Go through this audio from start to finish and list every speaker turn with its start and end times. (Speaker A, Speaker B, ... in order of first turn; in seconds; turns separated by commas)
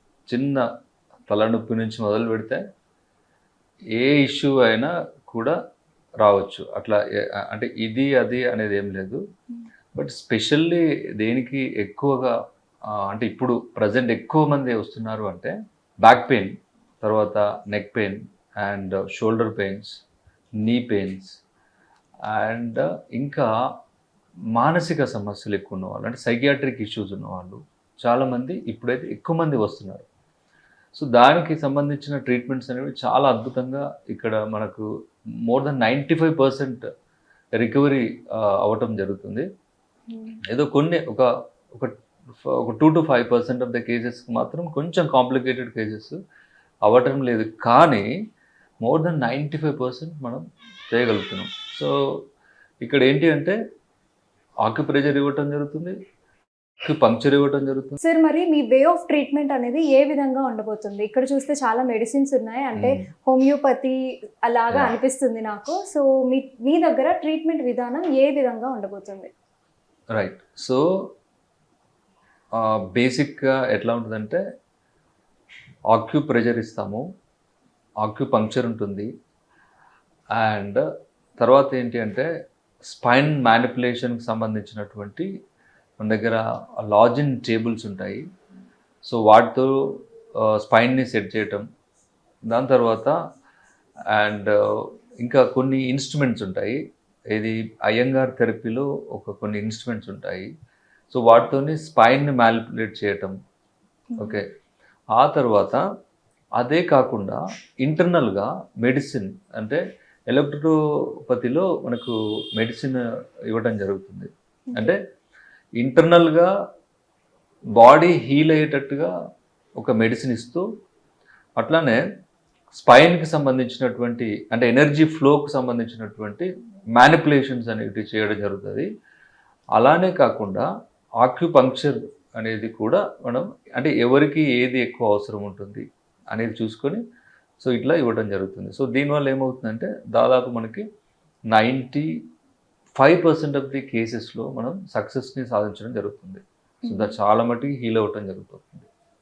Speaker A: 0.3-0.7, Speaker A: 1.3-2.6, Speaker A: 4.0-5.5, Speaker A: 6.2-9.2, Speaker A: 9.9-12.3, Speaker A: 12.9-19.9, Speaker A: 20.6-21.3, Speaker A: 22.3-23.5, Speaker A: 24.5-30.0, Speaker A: 30.9-34.9, Speaker A: 35.4-36.8, Speaker A: 37.6-39.5, Speaker B: 40.1-40.4, Speaker A: 40.5-46.2, Speaker A: 46.8-48.1, Speaker A: 48.8-51.9, Speaker A: 52.8-53.6, Speaker A: 54.6-55.9, Speaker A: 56.8-58.0, Speaker B: 58.0-69.3, Speaker A: 62.7-63.0, Speaker A: 70.1-70.8, Speaker A: 72.5-74.4, Speaker A: 75.9-77.0, Speaker A: 78.0-79.1, Speaker A: 80.3-80.8, Speaker A: 81.4-82.3, Speaker A: 82.8-85.3, Speaker A: 86.0-88.2, Speaker A: 89.0-91.6, Speaker A: 92.5-93.2, Speaker A: 94.1-96.8, Speaker A: 97.3-100.5, Speaker A: 101.1-103.3, Speaker A: 104.2-104.4, Speaker A: 105.1-105.8, Speaker A: 106.6-115.0, Speaker A: 115.8-116.5, Speaker A: 117.7-119.1, Speaker A: 119.8-120.6, Speaker A: 121.6-122.0, Speaker A: 122.7-128.9, Speaker A: 129.7-130.7, Speaker A: 131.2-137.0, Speaker A: 137.6-140.8, Speaker A: 141.5-142.1, Speaker A: 143.0-148.9, Speaker B: 146.8-147.1